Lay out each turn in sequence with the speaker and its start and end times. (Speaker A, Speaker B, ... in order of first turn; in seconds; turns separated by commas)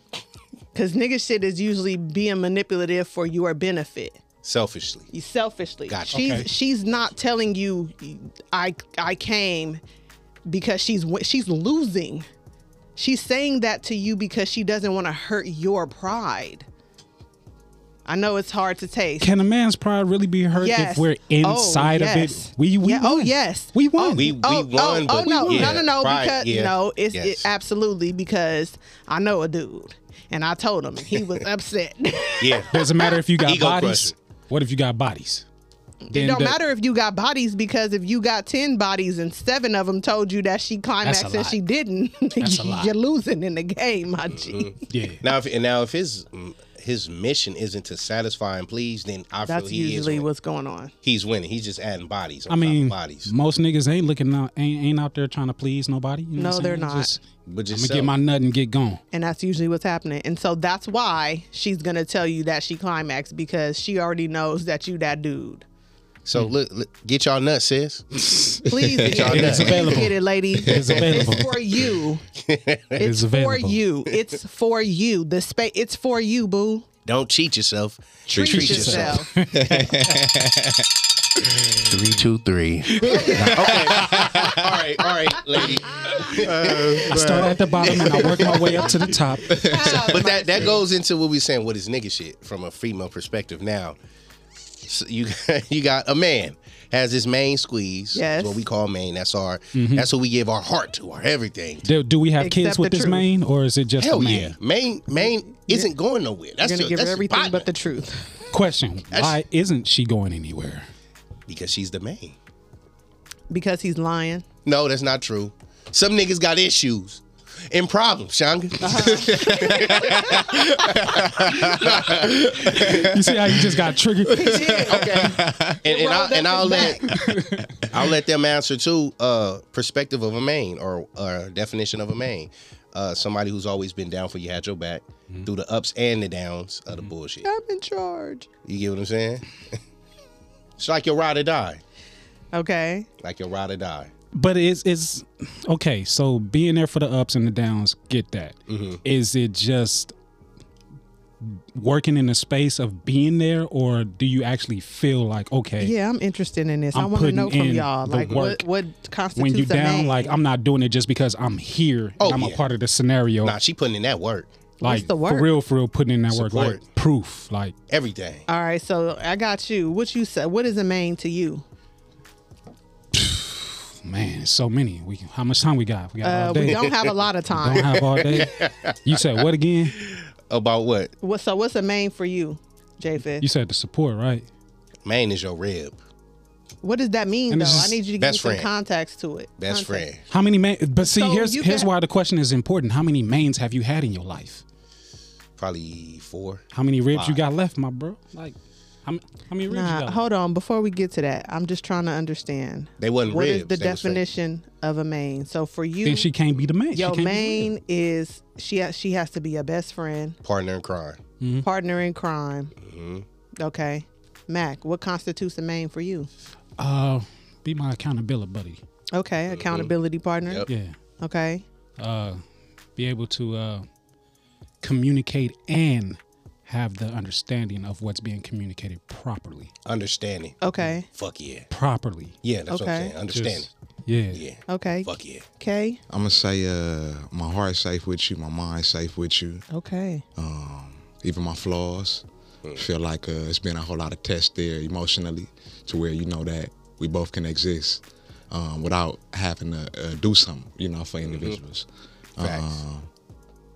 Speaker A: 0.7-4.2, Speaker B: 4.4-5.1, Speaker A: 5.1-9.8, Speaker B: 5.9-6.4, Speaker C: 6.1-6.5, Speaker A: 10.5-12.2, Speaker A: 12.9-16.6, Speaker A: 18.1-19.3, Speaker C: 19.2-24.4, Speaker A: 20.6-32.8, Speaker B: 24.1-27.4, Speaker C: 25.2-25.8, Speaker B: 32.4-32.8, Speaker C: 32.7-35.4, Speaker B: 33.4-34.1, Speaker A: 36.0-44.7, Speaker C: 36.1-36.6, Speaker C: 41.0-41.6, Speaker C: 42.4-42.9, Speaker B: 44.3-50.3, Speaker C: 44.9-45.2, Speaker A: 49.4-50.9, Speaker B: 51.0-53.3, Speaker C: 52.5-59.0, Speaker A: 56.4-57.1, Speaker B: 57.5-58.1, Speaker A: 59.1-65.6, Speaker B: 66.2-68.0, Speaker C: 68.1-71.5, Speaker A: 68.7-72.2, Speaker D: 68.7-69.6, Speaker B: 69.0-70.0, Speaker D: 70.6-71.3, Speaker B: 72.4-73.0, Speaker C: 73.0-73.8, Speaker A: 73.0-76.9, Speaker B: 77.0-79.2, Speaker D: 78.3-80.8, Speaker A: 78.3-79.3, Speaker C: 78.6-80.2, Speaker B: 81.8-89.1, Speaker C: 82.9-84.3, Speaker A: 83.0-83.5, Speaker D: 83.3-84.7, Speaker D: 86.4-87.5, Speaker C: 87.0-89.5, Speaker D: 89.4-90.3, Speaker A: 89.6-90.8, Speaker B: 90.1-94.0, Speaker B: 94.8-101.8, Speaker A: 98.1-98.7, Speaker C: 99.7-100.1, Speaker C: 101.8-104.6, Speaker A: 102.4-103.3, Speaker B: 104.0-107.7, Speaker A: 105.5-105.9, Speaker A: 106.6-108.4, Speaker C: 108.5-110.9, Speaker B: 109.1-109.4, Speaker B: 111.5-112.3, Speaker A: 113.5-114.4, Speaker B: 114.6-123.1, Speaker A: 118.8-120.6, Speaker D: 119.0-123.7, Speaker C: 122.4-124.9, Speaker D: 124.3-125.8, Speaker A: 124.3-127.2, Speaker B: 125.8-127.1, Speaker C: 127.0-127.8, Speaker B: 127.9-137.5, Speaker A: 137.4-138.5, Speaker B: 138.7-139.8, Speaker B: 140.8-141.8, Speaker A: 142.5-143.1, Speaker B: 143.2-144.1, Speaker C: 144.3-150.1, Speaker B: 148.7-149.0, Speaker C: 151.4-155.9, Speaker A: 155.8-160.3, Speaker C: 156.9-158.6, Speaker C: 159.3-163.6, Speaker B: 162.2-162.6, Speaker B: 163.4-164.5, Speaker A: 164.8-165.5, Speaker C: 164.8-167.7, Speaker B: 166.3-166.8, Speaker B: 167.9-168.4, Speaker A: 168.5-171.6, Speaker C: 173.1-176.8, Speaker A: 176.2-178.0, Speaker C: 177.5-180.0, Speaker B: 177.9-179.4, Speaker B: 179.9-181.1, Speaker A: 181.2-183.4, Speaker C: 183.4-184.5, Speaker B: 185.0-186.0, Speaker A: 186.8-190.1, Speaker C: 187.5-188.0, Speaker B: 188.2-188.7, Speaker B: 189.6-190.2, Speaker C: 190.3-194.6, Speaker A: 191.0-191.9, Speaker B: 195.6-197.4, Speaker C: 196.7-200.2, Speaker A: 199.7-206.3, Speaker B: 203.0-204.2, Speaker C: 206.0-207.7, Speaker A: 206.9-210.4, Speaker B: 210.4-211.2, Speaker C: 211.4-211.7, Speaker A: 211.6-212.7, Speaker B: 212.8-213.2, Speaker A: 213.6-216.3, Speaker C: 216.8-218.8, Speaker A: 219.1-220.7, Speaker B: 219.5-219.9, Speaker C: 220.7-220.9, Speaker A: 221.2-221.6, Speaker C: 222.0-222.4, Speaker C: 223.0-223.8, Speaker C: 224.8-229.7, Speaker B: 229.8-230.6, Speaker A: 230.6-231.1, Speaker B: 231.1-231.7, Speaker C: 231.7-232.3, Speaker B: 232.4-233.7, Speaker A: 232.7-233.1, Speaker C: 233.3-234.4, Speaker B: 234.3-235.4, Speaker A: 234.7-236.0, Speaker D: 236.1-239.6, Speaker A: 239.7-240.2, Speaker D: 240.3-242.2, Speaker D: 242.8-253.1, Speaker B: 251.2-251.6, Speaker B: 252.4-252.8